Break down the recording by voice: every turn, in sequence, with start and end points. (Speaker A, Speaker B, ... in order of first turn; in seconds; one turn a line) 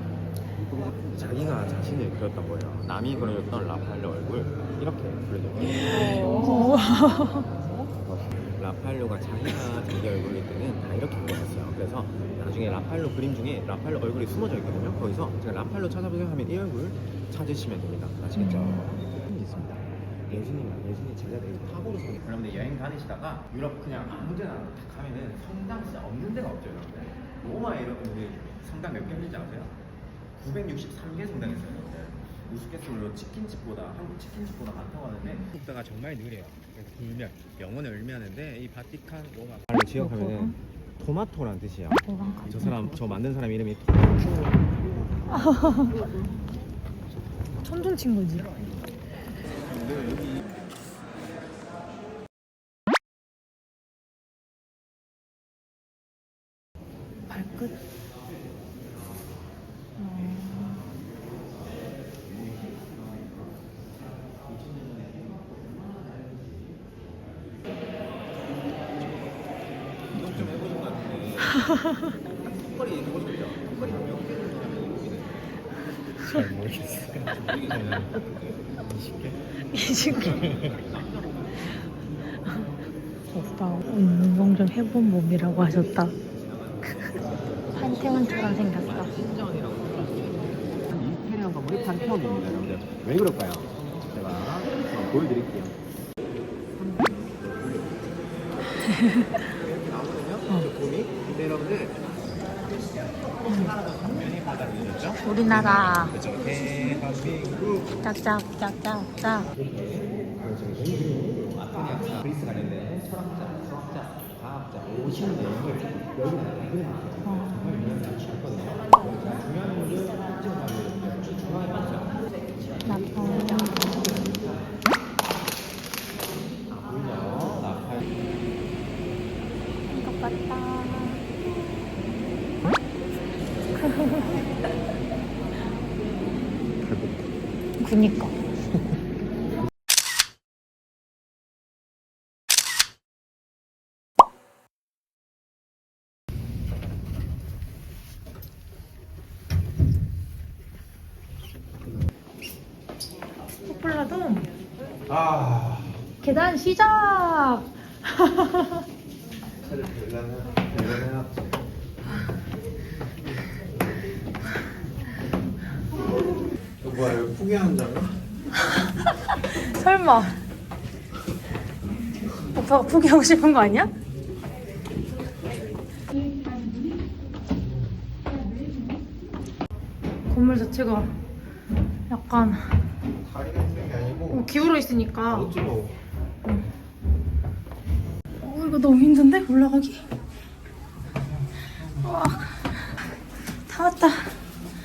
Speaker A: 0.5-6.2
Speaker B: 6.0-7.5
Speaker A: 7.9-29.8
Speaker B: 18.4-18.8
Speaker A: 30.4-46.3
Speaker B: 39.9-40.5
Speaker B: 42.0-42.8
Speaker B: 45.3-46.0
Speaker B: 47.6-48.5
Speaker B: 57.3-57.7
Speaker B: 60.0-60.9
Speaker A: 62.5-63.0
Speaker A: 70.1-71.7
Speaker B: 71.7-72.0
Speaker A: 72.3-75.5
Speaker C: 76.2-79.4
Speaker B: 79.7-80.5
Speaker A: 80.1-81.9
Speaker C: 80.2-80.8
Speaker B: 83.3-86.1
Speaker A: 86.5-95.8
Speaker B: 86.9-87.2
Speaker B: 87.7-89.1
Speaker A: 96.7-98.3
Speaker B: 98.9-99.4
Speaker A: 99.4-102.2
Speaker A: 103.4-107.9
Speaker B: 103.5-103.7
Speaker B: 105.2-106.1
Speaker B: 108.0-109.5
Speaker A: 109.5-124.8
Speaker B: 117.2-117.9
Speaker B: 122.8-123.7
Speaker A: 126.7-128.0
Speaker B: 129.9-131.2
Speaker B: 133.8-134.4
Speaker C: 136.8-137.2
Speaker B: 137.8-138.3
Speaker B: 153.6-154.5
Speaker C: 155.1-156.0
Speaker B: 156.2-158.8
Speaker C: 159.6-161.3
Speaker C: 166.8-168.2
Speaker B: 169.3-170.4
Speaker B: 172.5-173.9
Speaker B: 180.3-181.1
Speaker B: 182.1-182.8
Speaker C: 183.2-184.5
Speaker B: 184.3-185.5
Speaker C: 185.3-186.0
Speaker B: 188.4-190.0
Speaker B: 191.9-192.8
Speaker B: 193.7-194.4